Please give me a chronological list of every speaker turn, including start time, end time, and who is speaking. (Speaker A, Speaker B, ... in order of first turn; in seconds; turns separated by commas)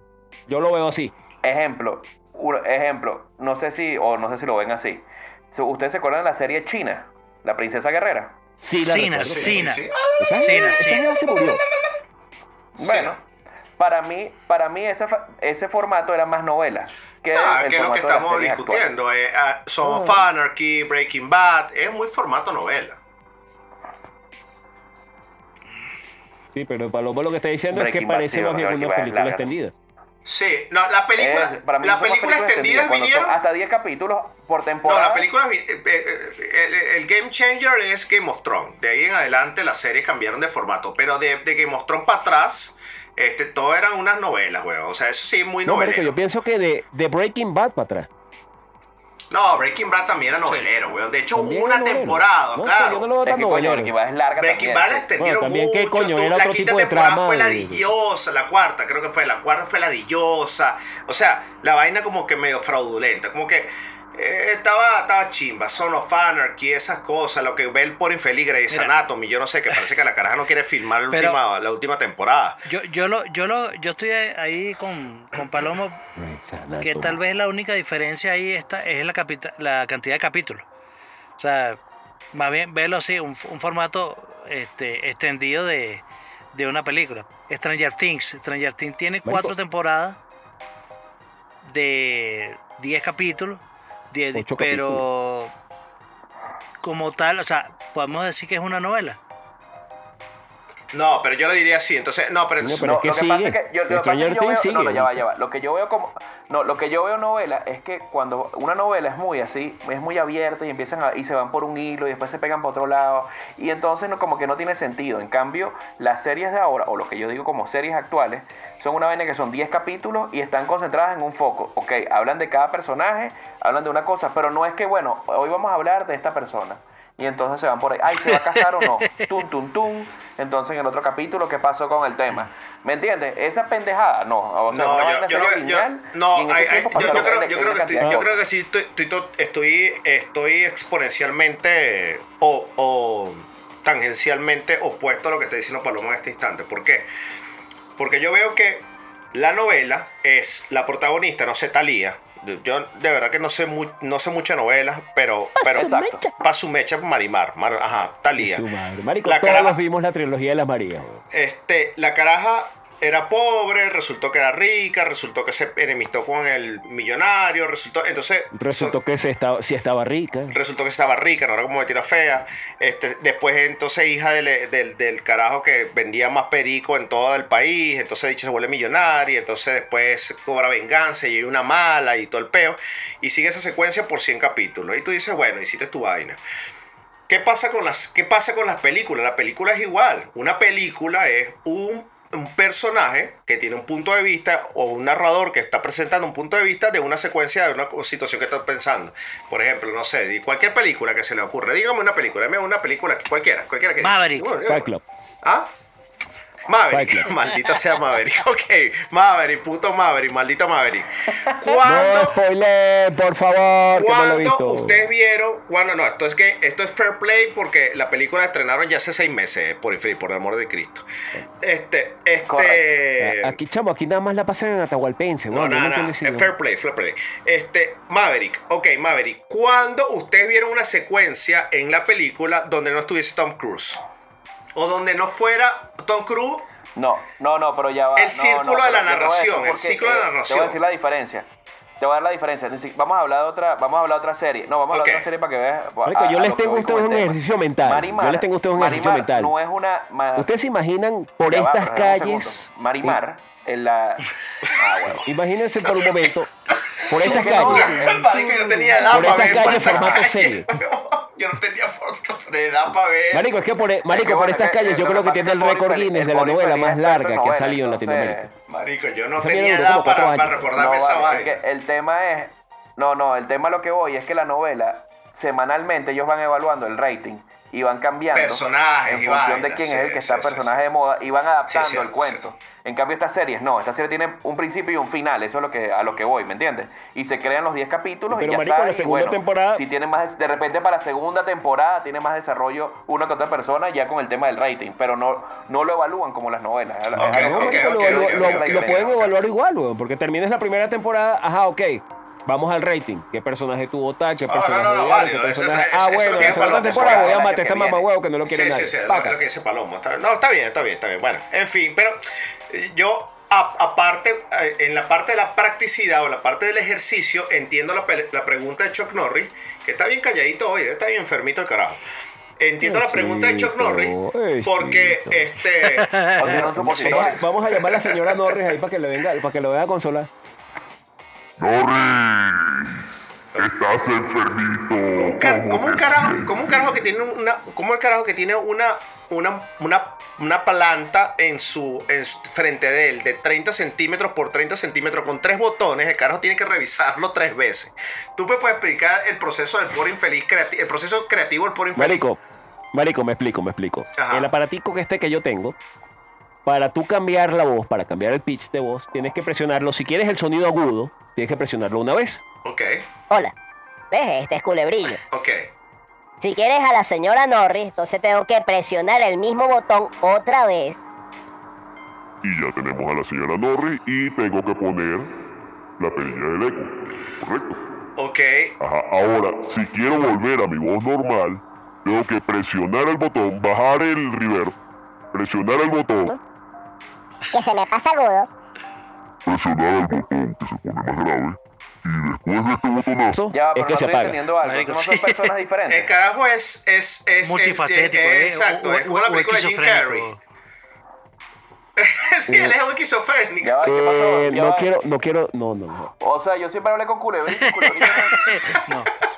Speaker A: 0.5-1.1, Speaker B: 1.4-8.3, Speaker A: 8.6-9.7, Speaker C: 8.8-9.8, Speaker D: 9.3-10.3, Speaker A: 10.2-11.6, Speaker C: 10.4-11.0, Speaker B: 12.8-13.2, Speaker D: 12.8-13.2, Speaker B: 13.8-18.9, Speaker D: 17.3-23.0, Speaker A: 19.8-20.3, Speaker A: 26.5-29.7, Speaker B: 27.7-29.5, Speaker D: 30.2-33.4, Speaker B: 31.2-35.3, Speaker D: 34.8-46.2, Speaker A: 45.6-48.1, Speaker D: 49.3-53.0, Speaker A: 51.3-53.9, Speaker B: 53.2-55.1, Speaker D: 54.4-72.6, Speaker A: 55.2-57.9, Speaker C: 68.7-69.0, Speaker C: 71.1-71.4, Speaker C: 72.7-76.0, Speaker A: 76.2-77.2, Speaker C: 76.8-80.6, Speaker C: 81.4-81.8, Speaker C: 82.3-86.0, Speaker C: 86.5-90.2, Speaker A: 89.2-89.5, Speaker C: 91.6-93.6, Speaker C: 94.1-95.5, Speaker A: 94.3-95.0, Speaker C: 96.8-99.2, Speaker D: 100.9-103.0, Speaker A: 102.6-105.2, Speaker B: 102.8-138.4, Speaker C: 128.3-129.2, Speaker D: 134.7-147.1, Speaker A: 136.9-137.3, Speaker D: 148.0-158.7, Speaker B: 155.6-156.3, Speaker A: 158.4-161.2, Speaker D: 159.2-159.8, Speaker D: 161.3-168.9, Speaker A: 168.5-170.6, Speaker D: 170.5-186.4, Speaker D: 187.3-204.9, Speaker C: 204.0-204.5, Speaker A: 204.6-205.0, Speaker D: 205.4-205.7, Speaker D: 206.7-212.4, Speaker A: 206.9-207.3, Speaker A: 211.8-215.1, Speaker D: 213.9-221.1, Speaker D: 221.6-223.6, Speaker B: 222.4-222.8, Speaker A: 223.2-226.5, Speaker D: 225.5-234.0, Speaker D: 234.7-236.6, Speaker B: 236.9-241.5, Speaker D: 238.2-240.8, Speaker B: 242.0-250.5, Speaker D: 244.9-245.2, Speaker A: 246.1-249.5, Speaker A: 250.4-253.2, Speaker B: 251.5-255.3, Speaker D: 254.6-256.2, Speaker A: 255.2-256.5, Speaker A: 257.1-258.1, Speaker D: 257.1-263.6, Speaker B: 257.2-260.1, Speaker A: 259.1-260.7, Speaker A: 263.3-268.5, Speaker B: 264.1-268.5, Speaker D: 268.7-271.6, Speaker A: 269.4-270.7, Speaker B: 270.7-299.2, Speaker D: 278.3-281.1, Speaker D: 281.7-282.4, Speaker A: 288.3-289.8, Speaker D: 297.2-299.3, Speaker A: 297.2-309.4, Speaker D: 304.4-307.4, Speaker B: 306.2-308.1, Speaker D: 308.4-322.0, Speaker D: 322.6-328.6, Speaker A: 322.8-325.5, Speaker B: 326.4-327.4, Speaker A: 326.4-330.3, Speaker E: 331.6-333.0, Speaker E: 333.6-336.5, Speaker D: 335.2-352.2, Speaker A: 351.9-352.4, Speaker A: 352.9-355.8, Speaker D: 354.2-354.5, Speaker A: 356.6-362.4, Speaker D: 362.6-363.0, Speaker F: 364.1-365.2, Speaker D: 365.3-365.7, Speaker F: 366.4-371.0, Speaker E: 372.4-375.3, Speaker E: 376.0-377.8, Speaker D: 378.1-378.7, Speaker E: 378.8-384.7, Speaker E: 385.3-386.4, Speaker F: 387.5-388.5, Speaker E: 389.4-393.4, Speaker A: 393.3-394.4, Speaker B: 393.5-396.1, Speaker C: 394.6-395.5, Speaker D: 395.9-400.3, Speaker C: 397.4-400.4, Speaker D: 402.0-403.9, Speaker A: 402.5-402.8, Speaker B: 403.6-404.9, Speaker A: 403.8-406.1, Speaker B: 406.2-408.5, Speaker C: 408.1-409.1